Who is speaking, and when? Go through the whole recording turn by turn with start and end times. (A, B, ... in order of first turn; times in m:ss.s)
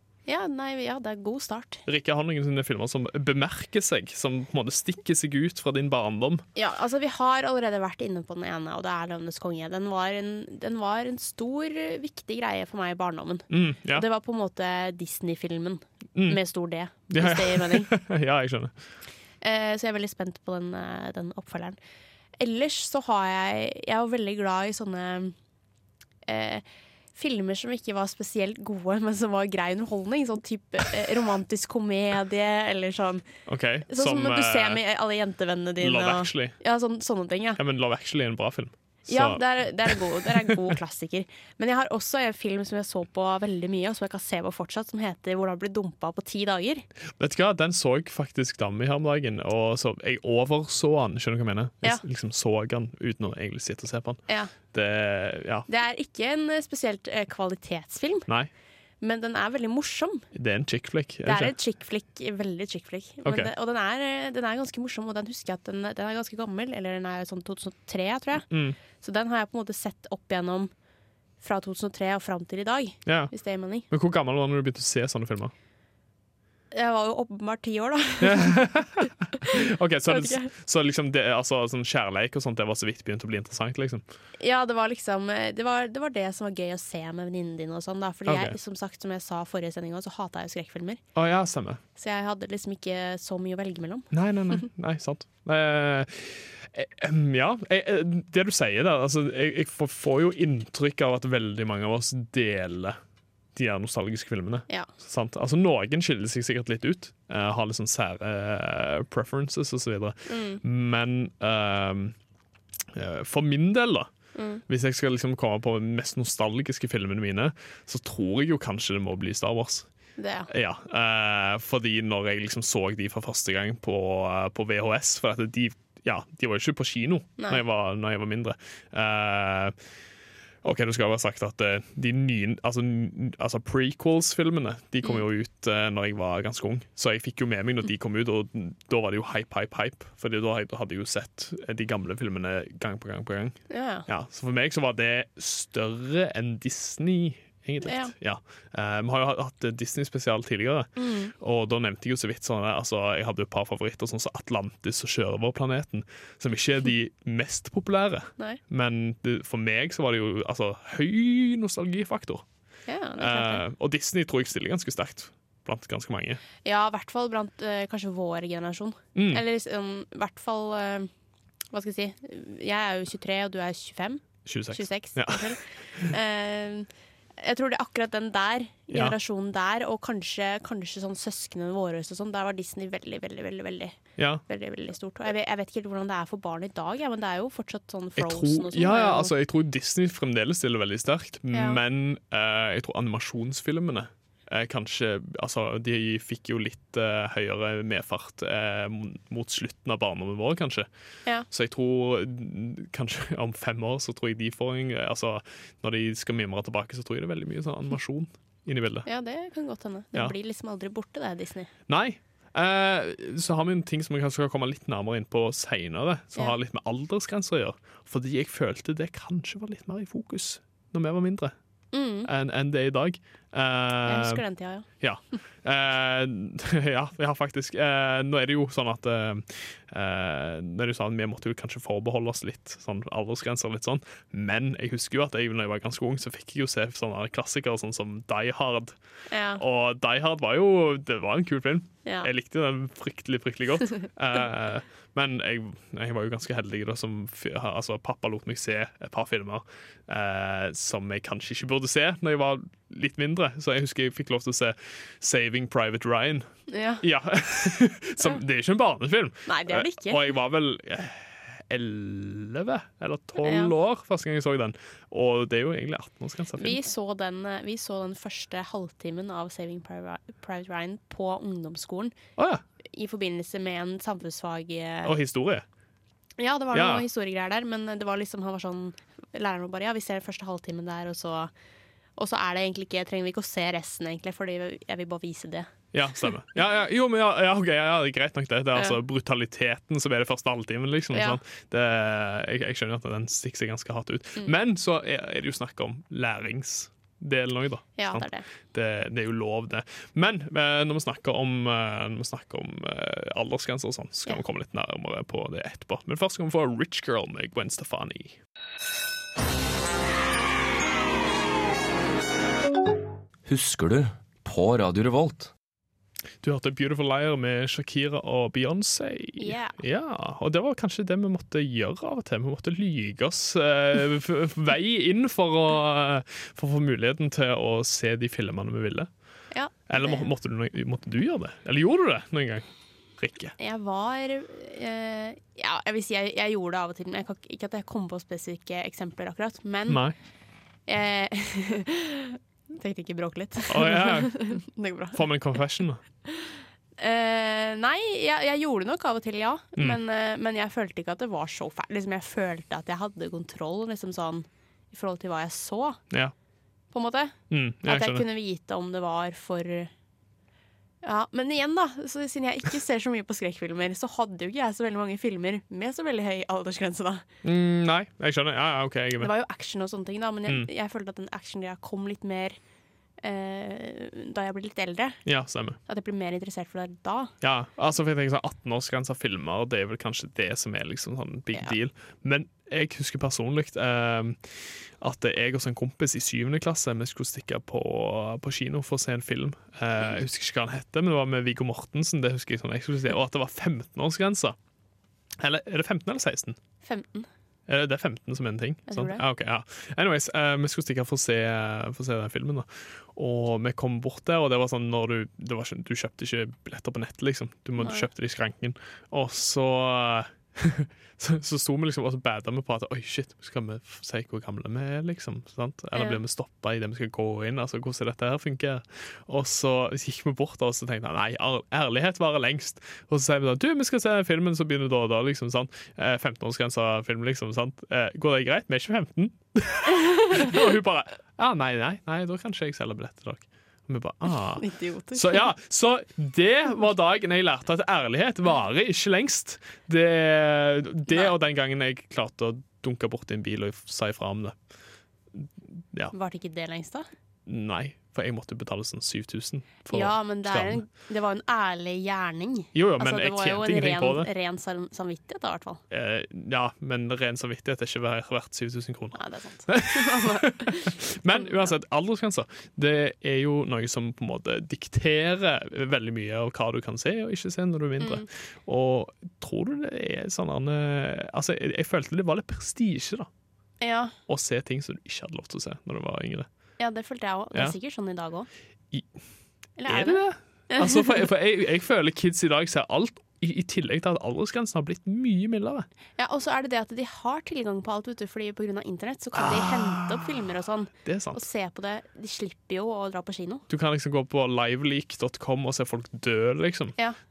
0:00.3-0:01.8 A
0:01.9-0:06.4 B
0:06.6-0:17.9 A
0:13.5-0:14.1 B
0:16.2-0:16.4 B
0:17.1-0:18.7 B
0:19.4-0:21.8 A
0:22.4-0:25.4 A
0:26.3-0:33.2 A
0:33.5-0:34.8 B
0:33.9-0:37.6 A
0:35.8-0:36.6 B
0:37.6-0:40.7 B
0:39.1-0:46.8 A
0:47.2-0:55.7 B
0:54.3-0:54.5 A
0:55.7-0:58.3 A
0:59.0-1:00.3 A
1:00.3-1:01.6 B
1:01.3-1:10.7 A
1:03.2-1:03.5 B
1:08.5-1:08.8 B
1:11.4-1:13.9 A
1:13.1-1:13.3 B
1:13.9-1:15.5 B
1:16.7-1:18.5 A
1:18.2-1:24.0 B
1:19.4-1:20.5 A
1:24.4-1:31.0 A
1:28.3-1:28.6 B
1:31.2-1:31.8 B
1:32.0-1:34.1 A
1:34.1-1:43.0 B
1:43.6-1:52.2 B
1:50.3-1:50.6 A
1:52.9-1:54.1 B
1:54.4-1:54.6 A
1:54.7-1:59.9 B
2:00.2-2:00.5 A
2:00.5-2:09.8 B
2:10.6-2:42.4 B
2:23.7-2:24.1 A
2:27.8-2:28.1 A
2:31.0-2:31.3 A
2:42.9-2:43.6 A
2:43.2-2:46.4 B
2:46.6-2:51.1 A
2:49.2-2:49.4 B
2:51.7-3:09.3 A
2:54.5-2:56.1 B
2:58.9-2:59.2 B
3:04.2-3:04.4 B
3:08.2-3:20.9 B
3:11.5-3:11.8 A
3:21.5-3:29.1 B
3:29.0-3:31.7 A
3:31.9-3:41.6 B
3:41.9-3:42.3 A
3:42.2-3:44.4 B
3:44.1-3:44.9 A
3:45.0-3:59.0 B
3:59.3-3:59.6 A
3:59.6-4:16.5 B
4:02.0-4:02.3 A
4:16.7-4:17.0 A
4:17.0-4:26.8 B
4:19.5-4:20.3 A
4:23.4-4:23.7 A
4:26.6-4:32.2 A
4:32.4-4:32.6 B
4:32.8-4:35.2 A
4:35.0-4:35.6 B
4:36.4-4:41.5 A
4:36.7-4:37.0 B
4:42.2-4:45.7 A
4:45.9-5:08.4 B
4:51.1-4:51.4 A
4:58.0-4:58.5 A
5:13.5-5:15.5 C
5:16.4-5:29.1 B
5:19.4-5:19.8 A
5:29.5-5:30.3 A
5:29.9-5:32.7 B
5:33.2-5:33.6 B
5:33.6-5:40.0 A
5:39.9-5:40.2 B
5:40.9-5:45.3 A
5:43.7-5:44.5 B
5:45.1-5:46.0 B
5:46.3-5:56.0 A
5:56.9-5:59.9 A
5:57.5-5:58.2 B
6:01.0-6:07.2 A
6:07.4-6:09.3 B
6:09.2-6:12.6 A
6:13.2-6:15.2 A
6:15.2-6:15.8 B
6:15.9-6:17.3 A
6:17.4-6:34.6 B
6:35.4-6:36.6 B
6:36.8-6:37.3 A
6:37.7-7:24.6 B
6:38.9-6:39.2 A
6:47.8-6:48.1 A
6:55.9-6:56.2 A
7:14.6-7:15.5 A
7:25.3-7:26.1 B
7:26.1-7:27.1 A
7:27.5-7:30.8 B
7:29.9-7:35.8 A
7:32.8-7:34.3 B
7:35.9-7:53.3 B
7:39.2-7:41.7 A
7:48.0-7:48.3 A
7:53.8-7:54.1 A
7:54.3-7:56.5 B
7:56.8-7:58.5 A
7:59.8-8:01.3 A
7:59.8-8:05.9 B
8:06.2-8:13.6 A
8:09.4-8:11.4 B
8:13.7-8:17.0 B